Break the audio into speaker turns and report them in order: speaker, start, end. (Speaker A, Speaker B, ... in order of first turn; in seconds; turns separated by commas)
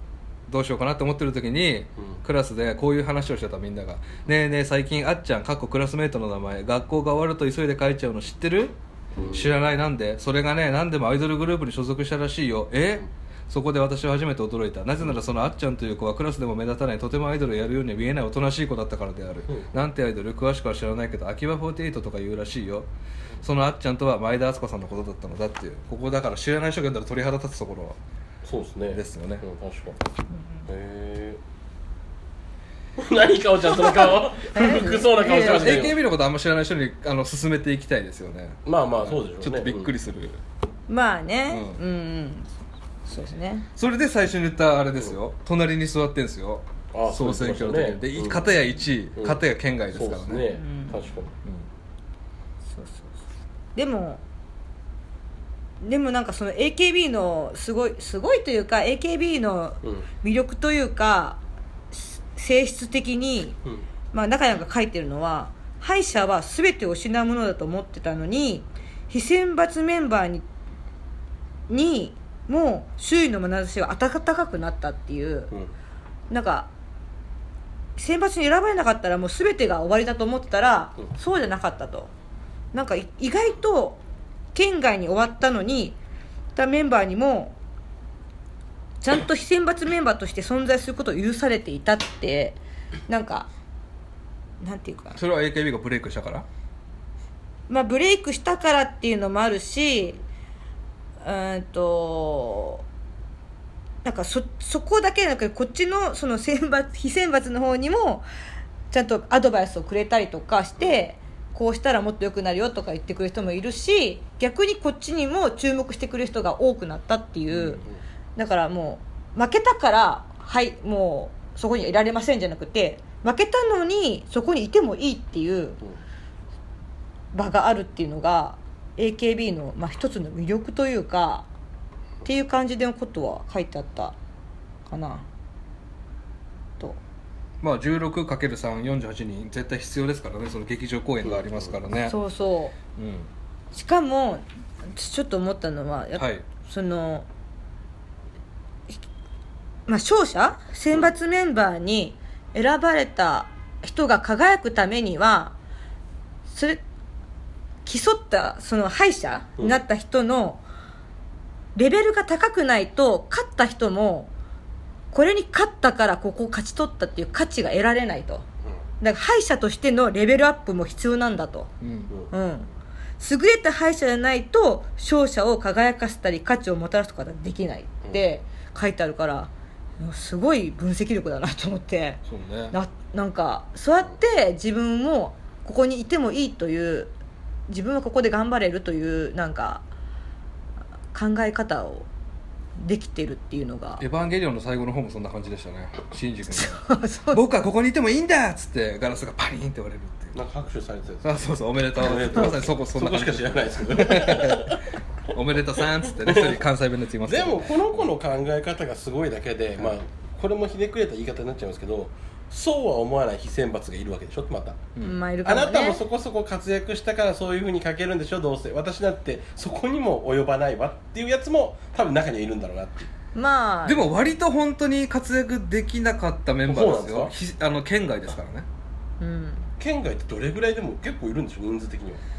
Speaker A: 0.5-8.7, Speaker B: 9.2-9.5, Speaker A: 9.3-22.9, Speaker A: 23.4-28.0, Speaker B: 28.4-30.0, Speaker A: 28.9-29.4, Speaker B: 30.7-31.4, Speaker B: 33.0-36.0, Speaker C: 33.8-35.9, Speaker A: 35.4-40.4, Speaker B: 38.6-39.9, Speaker C: 40.9-42.5, Speaker A: 41.5-41.8, Speaker C: 43.0-43.7, Speaker A: 43.8-50.5, Speaker B: 46.9-49.4, Speaker B: 49.9-51.3, Speaker C: 50.5-51.1, Speaker C: 52.7-53.1, Speaker C: 53.8-54.2, Speaker C: 55.8-61.4, Speaker C: 61.9-63.5, Speaker C: 64.1-70.4, Speaker C: 71.7-75.5, Speaker C: 76.3-76.7, Speaker C: 78.0-82.1, Speaker C: 82.7-84.0, Speaker C: 84.5-86.0, Speaker C: 86.5-87.5, Speaker C: 89.0-92.6, Speaker C: 93.1-93.5, Speaker C: 94.6-95.2, Speaker A: 95.2-96.5, Speaker C: 97.7-100.2, Speaker C: 101.2-102.8, Speaker C: 104.0-108.2, Speaker C: 108.9-117.8, Speaker A: 117.5-117.8, Speaker C: 118.3-125.8, Speaker C: 127.3-131.5, Speaker C: 132.2-134.1, Speaker C: 134.9-135.2, Speaker A: 137.6-142.2, Speaker B: 141.2-141.7, Speaker C: 142.0-142.7, Speaker A: 142.9-143.3, Speaker C: 143.7-147.3, Speaker A: 146.2-146.4, Speaker C: 149.9-155.5, Speaker C: 156.5-156.8, Speaker C: 157.8-160.6, Speaker C: 161.7-164.3, Speaker C: 165.1-168.4, Speaker C: 169.0-171.7, Speaker A: 171.8-172.1, Speaker C: 172.3-172.7, Speaker C: 173.2-182.2, Speaker A: 182.2-182.7, Speaker C: 182.7-187.1, Speaker C: 187.7-189.8, Speaker C: 191.1-192.1, Speaker C: 192.8-194.0, Speaker A: 194.0-200.4, Speaker C: 196.5-197.4, Speaker B: 200.3-201.4, Speaker A: 201.2-204.8, Speaker B: 201.9-204.9, Speaker A: 205.3-208.1, Speaker B: 206.2-206.6, Speaker B: 207.3-214.9, Speaker C: 215.0-216.0, Speaker B: 215.4-223.1, Speaker C: 223.3-224.0, Speaker A: 223.8-228.7, Speaker B: 226.7-227.3, Speaker C: 229.2-229.7, Speaker B: 229.8-232.2